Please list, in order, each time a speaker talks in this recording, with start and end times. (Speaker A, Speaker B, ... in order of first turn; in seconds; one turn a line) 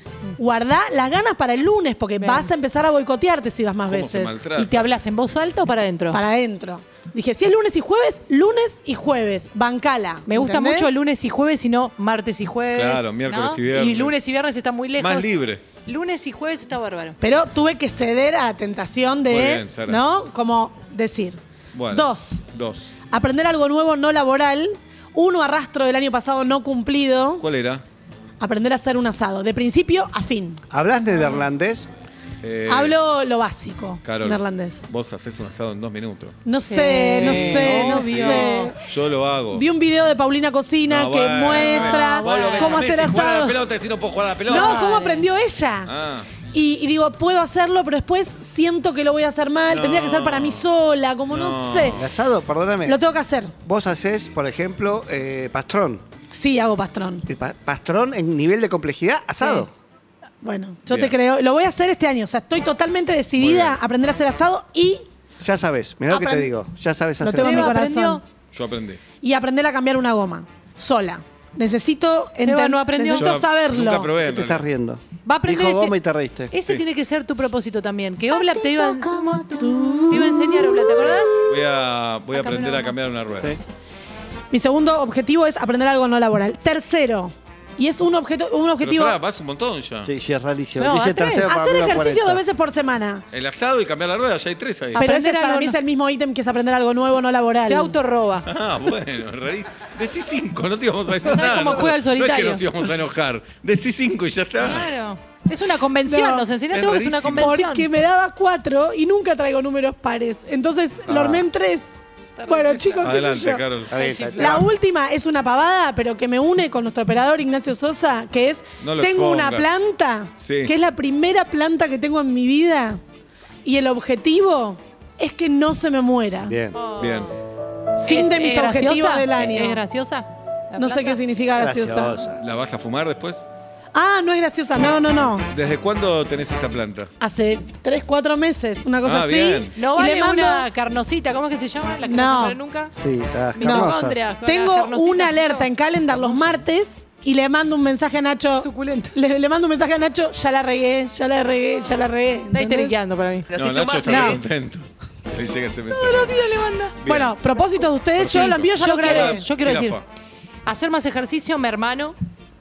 Speaker A: 0.4-4.4
Speaker B: 2.2-2.5
Speaker C: 3.9-4.9
Speaker B: 4.5-6.2
Speaker A: 6.1-10.9
Speaker B: 10.3-17.2
Speaker C: 12.7-14.2
Speaker C: 15.0-15.7
Speaker A: 17.2-22.4
Speaker C: 19.3-20.0
Speaker C: 21.7-22.9
Speaker A: 23.1-27.4
Speaker C: 27.4-27.8
Speaker A: 28.4-30.6
Speaker D: 30.7-31.9
Speaker C: 32.4-33.0
Speaker A: 32.7-34.8
Speaker C: 34.0-36.4
Speaker A: 36.4-38.8
Speaker B: 36.6-38.7
Speaker C: 37.0-39.6
Speaker A: 39.5-43.6
Speaker C: 40.9-44.8
Speaker B: 41.5-42.9
Speaker B: 44.5-45.2
Speaker A: 44.5-45.9
Speaker C: 45.9-46.3
Speaker A: 46.5-52.0
Speaker C: 49.7-50.7
Speaker C: 51.3-52.1
Speaker D: 52.0-53.0
Speaker A: 52.8-53.5
Speaker D: 53.6-56.0
Speaker A: 56.3-57.2
Speaker D: 57.3-59.7
Speaker A: 60.4-65.0
Speaker C: 60.9-61.1
Speaker C: 63.4-63.8
Speaker D: 65.4-67.7
Speaker A: 66.1-66.5
Speaker A: 67.2-68.2
Speaker B: 67.3-68.2
Speaker C: 68.5-69.0
Speaker A: 69.2-74.1
Speaker B: 72.4-73.4
Speaker C: 73.2-74.7
Speaker D: 74.2-76.5
Speaker B: 75.2-76.0
Speaker B: 76.5-81.5
Speaker A: 78.6-81.1
Speaker C: 81.4-83.6
Speaker B: 82.3-82.9
Speaker A: 84.5-89.2
Speaker C: 88.8-90.1
Speaker D: 90.0-92.4
Speaker B: 90.8-91.5
Speaker A: 91.4-93.2
Speaker C: 93.3-95.0
Speaker B: 94.9-95.8
Speaker A: 95.0-98.0
Speaker B: 97.6-98.5
Speaker C: 98.4-104.9
Speaker B: 101.2-102.7
Speaker B: 104.6-107.9
Speaker A: 106.0-106.5
Speaker C: 106.7-107.5
Speaker A: 107.3-111.9
Speaker D: 111.1-111.5
Speaker B: 112.4-113.2
Speaker A: 112.5-113.7
Speaker C: 113.0-114.0
Speaker D: 113.9-114.7
Speaker B: 113.9-114.7
Speaker A: 114.3-123.0
Speaker C: 118.8-119.7
Speaker C: 120.4-120.7
Speaker A: 123.6-126.6
Speaker D: 126.4-126.8
Speaker B: 126.7-127.3
Speaker C: 127.0-127.3
Speaker A: 128.0-129.8
Speaker B: 128.0-131.2
Speaker A: 130.8-132.2
Speaker D: 131.6-132.4
Speaker C: 132.4-133.5
Speaker A: 133.9-135.4
Speaker C: 135.5-137.1
Speaker A: 137.2-140.7
Speaker C: 139.0-139.8
Speaker B: 139.7-142.9
Speaker A: 142.0-142.6
Speaker D: 143.0-144.2
Speaker B: 143.6-146.5
Speaker A: 143.6-152.9
Speaker B: 148.5-149.1
Speaker B: 152.5-154.4
Speaker C: 153.5-156.4
Speaker A: 154.0-154.4
Speaker B: 155.9-157.0
Speaker C: 157.0-157.4
Speaker A: 157.0-159.4
Speaker C: 158.1-160.0
Speaker B: 158.2-160.0
Speaker B: 160.6-162.2